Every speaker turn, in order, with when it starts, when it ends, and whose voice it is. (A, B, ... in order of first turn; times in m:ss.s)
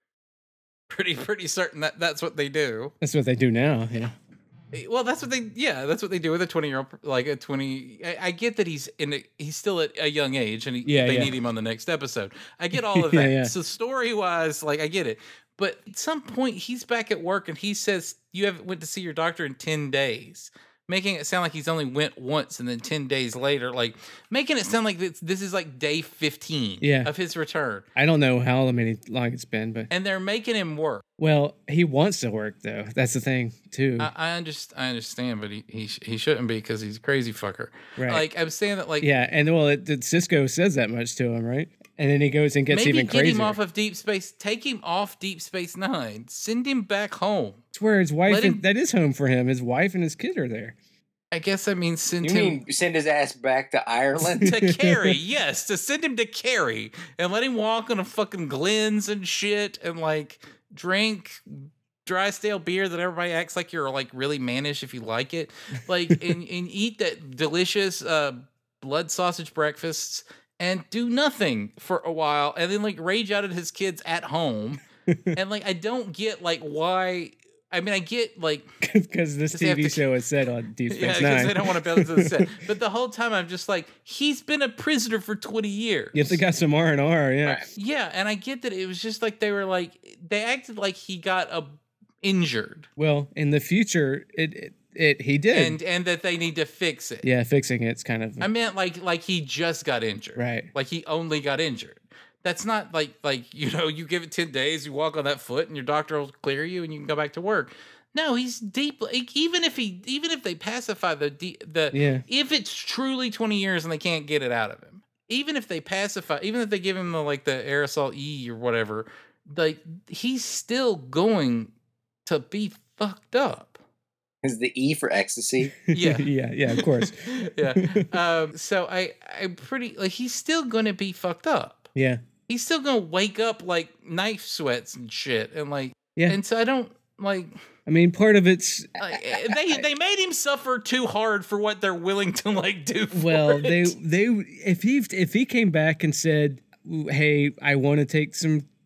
0:00.9-0:02.9 A
0:03.0-0:04.1 B
0:04.7-0:27.8 A
0:10.8-0:11.3 B
0:12.8-0:13.5 B
0:26.8-0:27.1 B
0:28.0-0:29.9 B
0:29.9-0:31.0 A
0:31.2-0:34.1 B
0:34.0-0:39.1 A
0:38.0-0:38.2 B
0:39.0-0:43.6 B
0:42.7-0:47.6 A
0:47.7-0:50.7 B
0:48.2-0:48.6 A
0:51.3-0:52.6 A
0:52.2-0:54.5 C
0:54.4-1:14.8 A
0:54.4-0:55.1 B
1:15.1-1:15.4 B
1:15.3-1:18.7 A
1:18.8-1:22.5 B
1:19.5-1:20.1 A
1:20.9-1:26.4 A
1:26.1-1:27.6 B
1:27.8-1:32.9 A
1:33.0-1:35.8 B
1:35.5-1:37.2 A
1:37.2-1:38.5 B
1:38.4-2:01.7 A
1:40.4-1:40.7 B
1:51.9-1:52.2 B
2:02.2-2:03.8 A
2:04.4-2:05.7 C
2:05.9-2:08.1 B
2:05.9-2:11.9 A
2:11.9-2:12.2 B
2:12.5-2:17.5 A
2:17.9-2:18.9 B
2:19.0-2:23.9 A
2:23.1-2:28.6 B